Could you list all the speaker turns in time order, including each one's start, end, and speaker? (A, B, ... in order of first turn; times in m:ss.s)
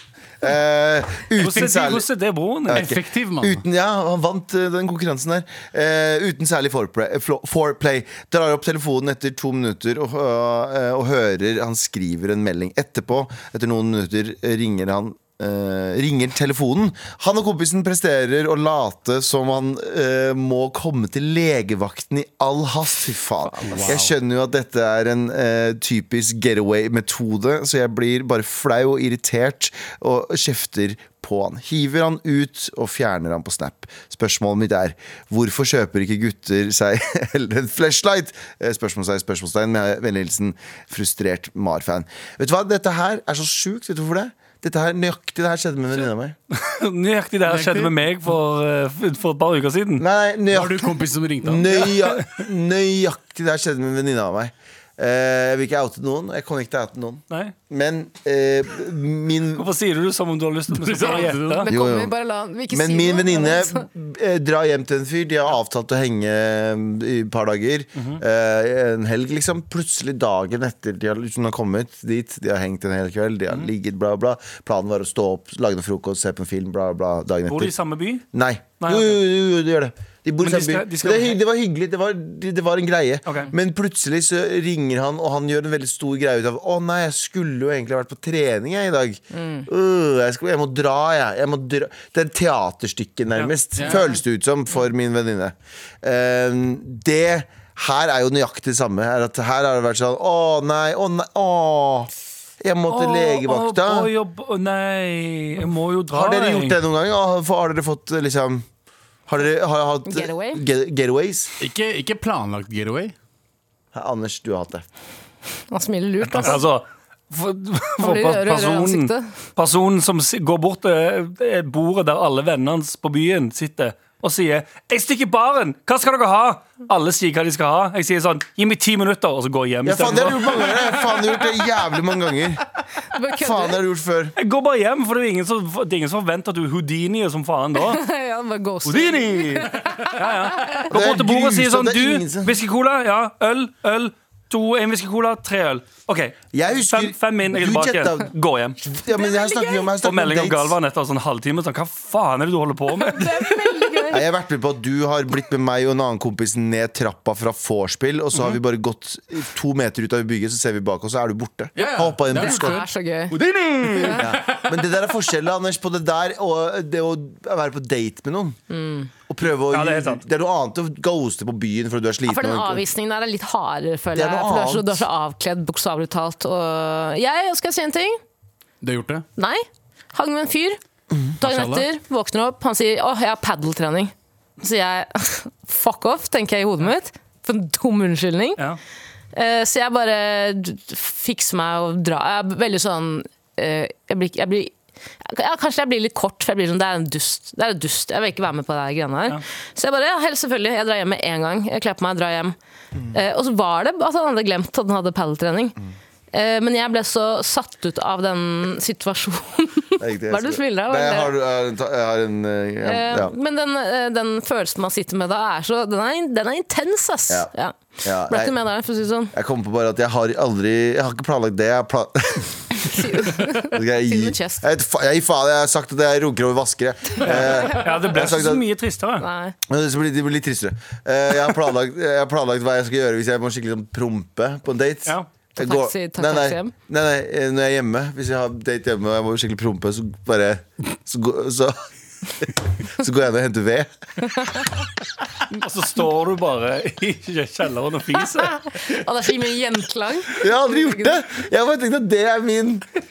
0:00.4-0:02.0 A
0:01.4-0:02.9 B
0:02.7-0:03.6 C
0:02.7-0:46.3 A
0:23.6-0:23.9 D
0:23.7-0:24.1 C
0:46.5-0:50.0 B
0:47.4-0:47.9 C
0:50.0-0:59.7 A
0:50.5-0:51.9 C
0:59.6-1:01.6 B
1:00.7-1:01.7 C
1:01.4-1:03.8 D
1:01.6-1:02.1 A
1:02.7-1:17.7 A
1:07.9-1:08.2 B
1:17.5-1:18.2 B
1:18.3-1:44.1 A
1:18.8-1:19.2 B
1:20.4-1:21.4 B
1:23.2-1:23.5 B
1:29.3-1:29.7 D
1:33.8-1:34.1 C
1:42.9-1:46.8 B
1:46.1-1:48.6 A
1:49.3-1:51.5 A
1:50.1-1:50.6 D
1:51.6-1:53.1 C
1:53.9-1:54.8 A
1:55.7-1:56.6 D
1:56.3-2:10.7 B
1:58.0-1:59.3 D
2:09.8-2:12.6 A
2:13.1-2:13.8 D
2:13.3-2:14.3 A
2:14.4-2:18.0 B
2:17.8-2:20.8 D
2:18.8-2:28.8 B
2:20.9-2:22.6 A
2:26.5-2:28.3 A
2:28.8-2:30.8 A
2:29.1-2:29.9 D
2:30.0-2:33.5 B
2:32.9-2:34.2 D
2:34.1-2:42.8 A
2:41.8-2:44.7 C
2:42.3-2:43.4 D
2:44.0-2:48.6 A
2:48.7-2:49.1 D
2:49.3-2:52.8 A
2:49.7-2:50.2 B
2:52.2-2:58.2 D
2:54.1-2:55.0 A
2:58.8-2:59.2 C
2:59.4-3:00.8 D
3:01.4-3:08.6 D
3:01.4-3:01.9 C
3:09.3-3:14.7 D
3:15.2-3:22.5 D
3:23.1-3:25.8 D
3:26.3-3:31.3 D
3:30.0-3:33.3 A
3:32.8-3:39.3 D
3:38.0-3:38.5 A
3:39.3-3:48.6 A
3:42.8-3:44.6 D
3:47.2-3:49.2 B
3:49.2-3:49.5 D
3:49.7-4:01.8 A
3:55.6-3:56.7 D
4:02.4-4:03.9 A
4:04.2-4:04.7 D
4:05.5-4:08.6 B
4:08.4-4:11.1 D
4:10.4-4:12.8 A